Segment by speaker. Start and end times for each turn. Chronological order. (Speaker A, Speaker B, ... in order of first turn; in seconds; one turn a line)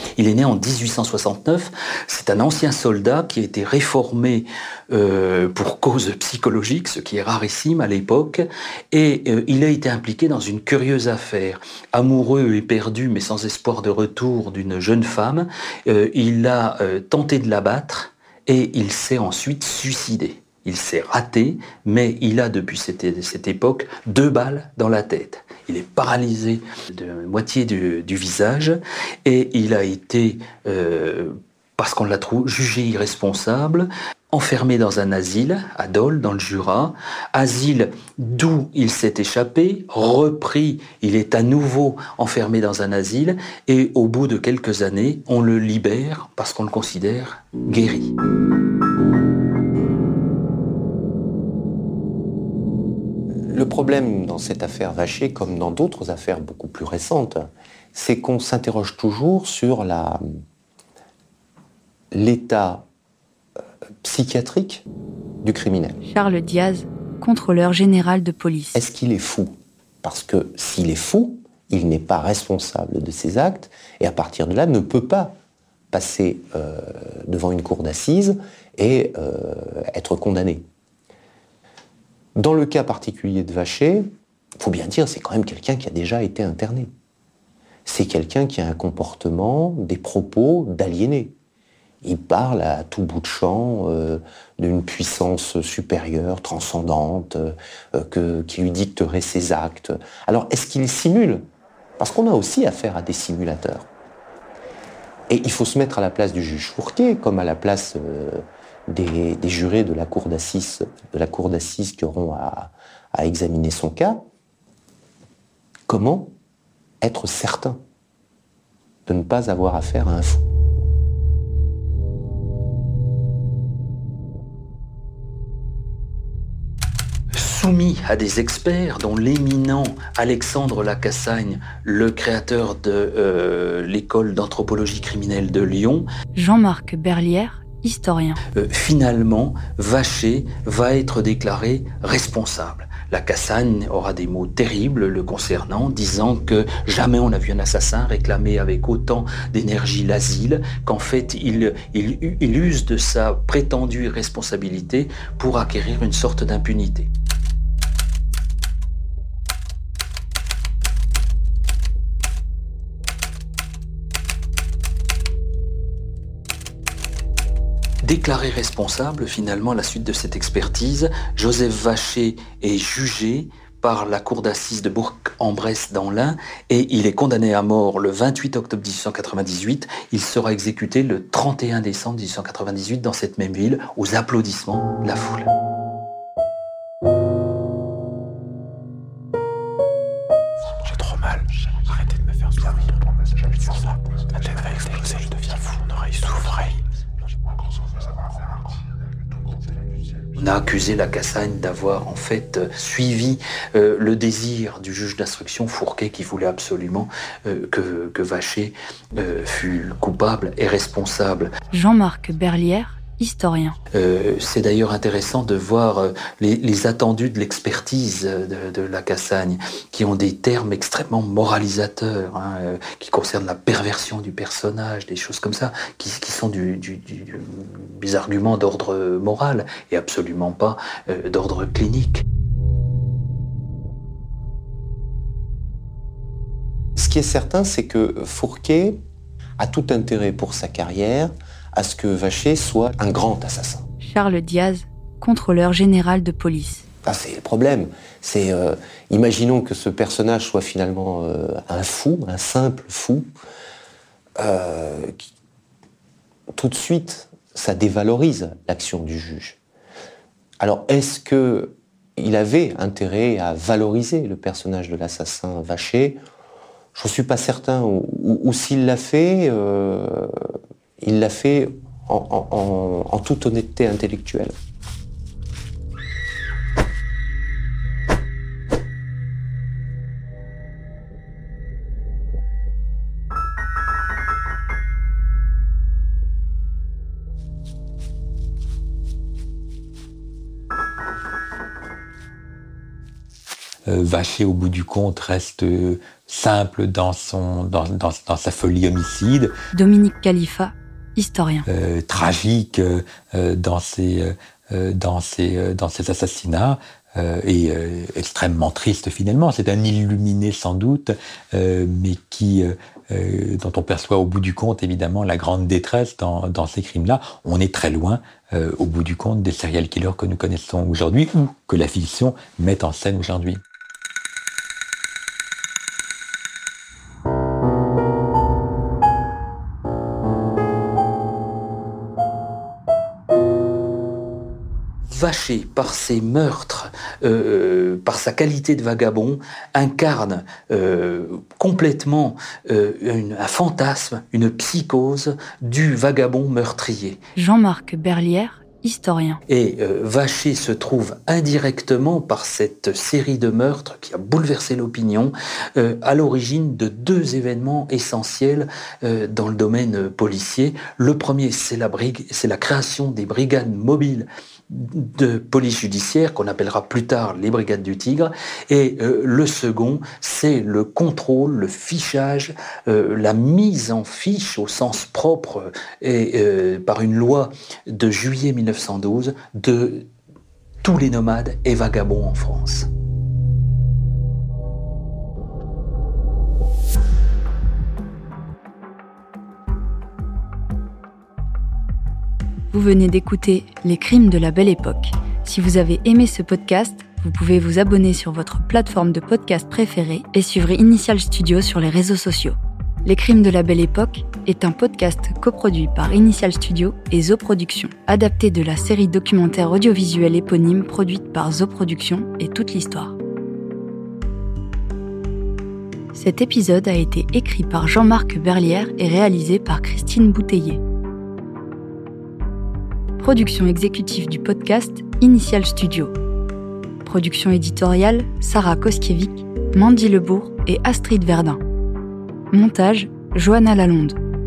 Speaker A: 0.2-48.1
Speaker B: 53.5-60.2
Speaker B: 62.1-62.9
Speaker B: 64.0-64.8
Speaker B: 65.4-66.0
Speaker C: 66.1-68.8
Speaker B: 68.8-69.5
Speaker B: 70.0-75.3
Speaker B: 75.9-80.6
Speaker B: 82.4-84.1
Speaker B: 84.6-86.9
Speaker B: 87.9-91.3
Speaker B: 92.0-101.4
Speaker B: 102.0-103.9
Speaker B: 105.3-114.2
Speaker B: 115.9-116.3
Speaker B: 117.0-117.8
Speaker B: 119.1-120.5
Speaker A: 127.3-136.1
Speaker C: 136.3-138.4
Speaker A: 138.6-157.1
Speaker A: 168.0-185.5
Speaker D: 190.9-191.4
Speaker D: 194.4-196.8
Speaker A: 200.3-211.5
Speaker C: 211.7-213.8
Speaker A: 213.9-232.2
Speaker B: 237.0-239.0
Speaker B: 239.6-243.8
Speaker C: 244.0-246.8
Speaker B: 247.1-253.3
Speaker B: 254.4-255.2
Speaker B: 256.5-259.6
Speaker B: 260.6-266.2
Speaker B: 266.9-274.6
Speaker D: 293.9-299.5
Speaker C: 299.7-301.6
Speaker D: 301.6-323.6
Speaker A: 335.1-347.2
Speaker C: 347.4-349.4
Speaker A: 349.5-380.1
Speaker A: 380.8-382.9
Speaker C: 392.7-413.2
Speaker C: 416.1-420.8
Speaker C: 423.2-426.1
Speaker C: 427.0-431.6
Speaker C: 432.5-434.2